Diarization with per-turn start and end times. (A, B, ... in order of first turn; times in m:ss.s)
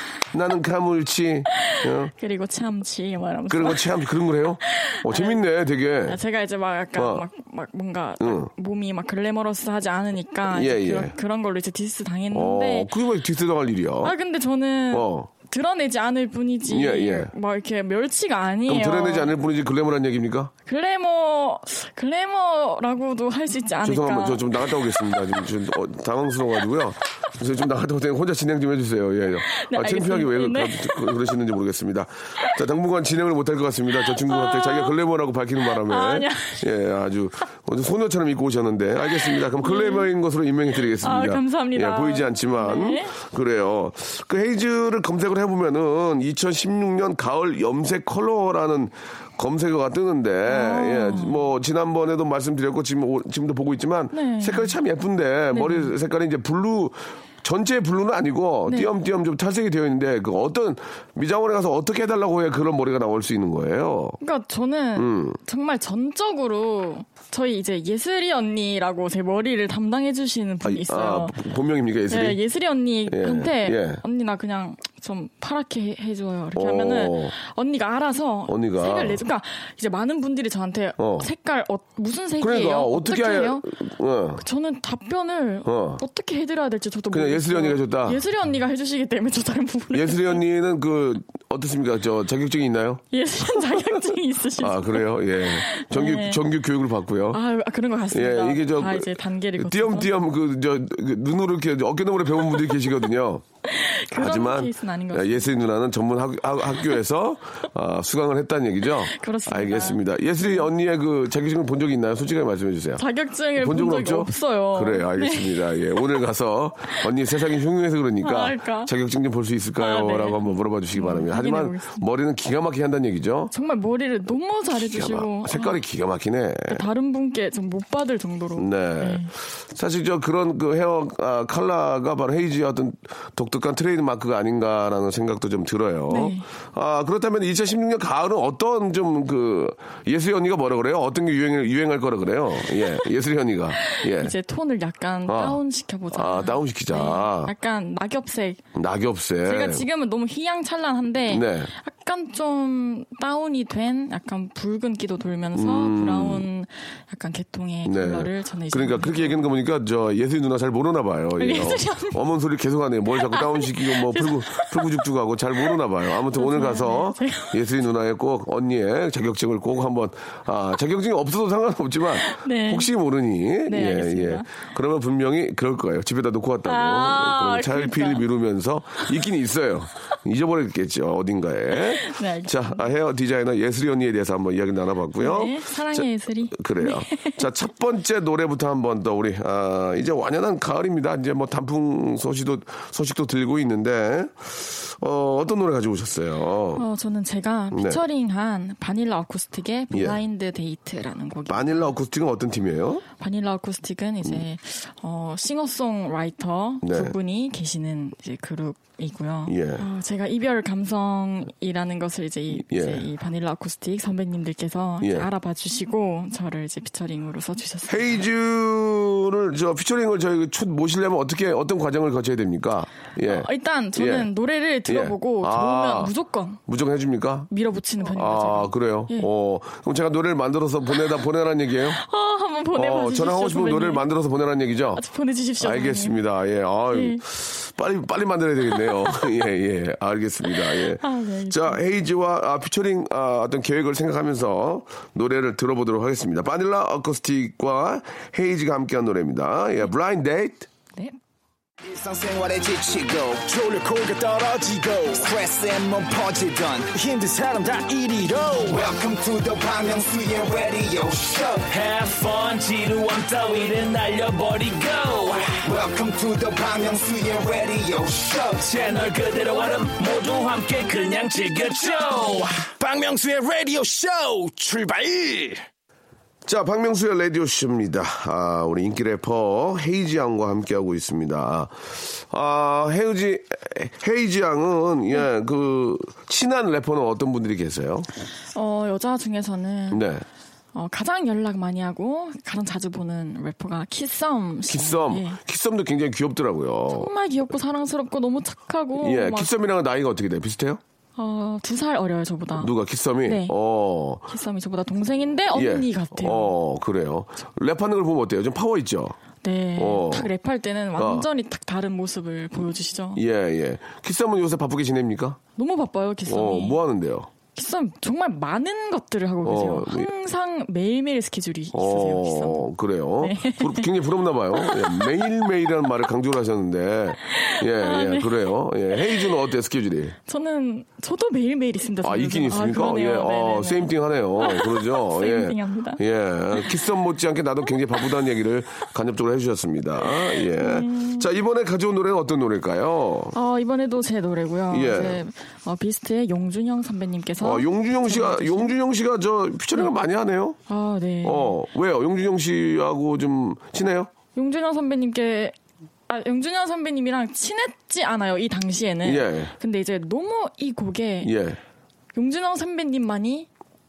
0:00.3-0:02.1 A
0:01.6-0:03.9 B
0:03.5-0:06.2 A
0:04.6-0:05.4 B
0:06.0-0:12.9 B
0:06.9-0:07.2 A
0:08.2-0:08.5 A
0:10.5-0:11.1 A
0:12.3-0:14.2 A
0:14.0-0:19.3 B
0:14.9-0:15.3 A
0:16.7-0:17.3 A
0:18.7-0:20.5 A
0:20.6-0:24.9 B
0:23.8-1:04.2 A
0:29.5-0:31.3 B
0:34.0-0:34.9 B
0:35.6-0:36.6 B
0:39.1-0:40.1 B
0:41.0-0:43.2 B
0:50.4-0:51.4 B
0:54.1-0:54.8 B
0:55.5-0:55.9 B
0:58.6-0:58.9 B
1:04.2-1:11.4 B
1:05.0-1:05.4 A
1:10.6-1:12.4 A
1:12.1-1:23.7 B
1:13.1-1:14.0 A
1:16.5-1:17.3 A
1:18.5-1:19.2 A
1:21.0-1:21.3 A
1:22.4-1:24.4 A
1:24.4-1:30.4 B
1:25.6-1:26.0 A
1:27.1-1:28.2 A
1:29.9-1:33.0 A
1:33.1-1:36.4 B
1:34.6-1:37.4 A
1:37.3-1:40.1 B
1:38.1-1:43.4 A
1:43.6-1:45.5 B
1:44.1-1:53.0 A
1:49.1-1:50.7 B
1:53.0-1:55.8 B
1:53.6-2:03.5 A
1:58.2-1:58.9 B
1:59.8-2:02.0 B
2:03.5-2:05.8 B
2:04.7-2:06.8 A
2:06.7-2:09.3 B
2:08.6-2:24.3 A
2:16.1-2:16.5 B
2:23.8-2:28.6 B
2:25.3-2:25.6 A
2:26.1-2:27.5 A
2:28.7-2:29.8 A
2:29.4-2:39.5 B
2:31.3-2:31.7 A
2:35.5-2:36.4 A
2:37.8-3:16.8 A
2:41.4-2:42.2 B
2:43.2-2:45.0 B
2:45.6-2:47.6 B
2:52.2-2:52.9 B
2:53.6-2:54.5 B
2:56.6-2:58.2 B
3:01.7-3:02.9 B
3:05.2-3:07.4 B
3:16.8-3:21.9 B
3:17.7-3:18.0 A
3:19.9-3:20.2 A
3:21.5-3:23.0 A
3:23.2-3:38.2 B
3:26.8-3:27.1 A
3:29.5-3:29.8 A
3:32.6-3:33.0 A
3:35.0-3:35.3 A
3:37.9-3:44.3 A
3:43.2-3:46.6 B
3:44.9-3:46.1 A
3:46.7-3:47.5 A
3:47.5-3:49.3 B
3:48.0-3:52.0 A
3:51.9-3:54.0 B
3:52.7-3:55.0 A
3:54.9-3:56.2 B
3:55.6-4:10.7 A
3:56.9-3:57.2 B
3:58.8-3:59.2 B
4:00.4-4:01.8 B
4:11.8-4:21.7 C
4:21.7-4:25.6 D
4:25.6-4:28.8 C
4:28.6-4:32.6 D
4:32.7-4:35.6 C
4:36.4-4:48.1 A
4:48.5-4:50.0 B
4:49.9-4:50.2 A
4:50.7-4:55.4 B
4:54.7-4:57.1 A
4:56.9-4:59.5 B
4:59.0-5:00.8 A
5:01.2-5:02.7 B
5:02.6-5:04.2 A
5:03.2-5:03.5 B
5:04.3-5:06.5 B
5:05.5-5:09.2 A
5:09.4-5:13.2 B
5:09.8-5:10.3 A
5:11.0-5:11.3 A
5:13.2-5:15.4 A
5:15.6-5:16.8 B
5:16.3-5:17.3 A
5:17.5-5:22.7 B
5:19.4-5:20.1 A
5:21.7-5:30.2 A
5:23.2-5:23.9 B
5:24.5-5:25.1 B
5:27.3-5:29.2 B
5:30.2-5:36.0 B
5:32.0-5:43.3 A
5:40.0-5:41.3 B
5:43.3-5:48.7 B
5:44.7-5:45.2 A
5:47.4-5:50.6 A
5:50.7-5:51.6 B
5:51.2-5:54.1 A
5:54.3-5:55.5 B
5:56.1-6:01.3 B
5:59.0-5:59.5 A
6:01.2-6:01.6 A
6:02.1-6:03.5 B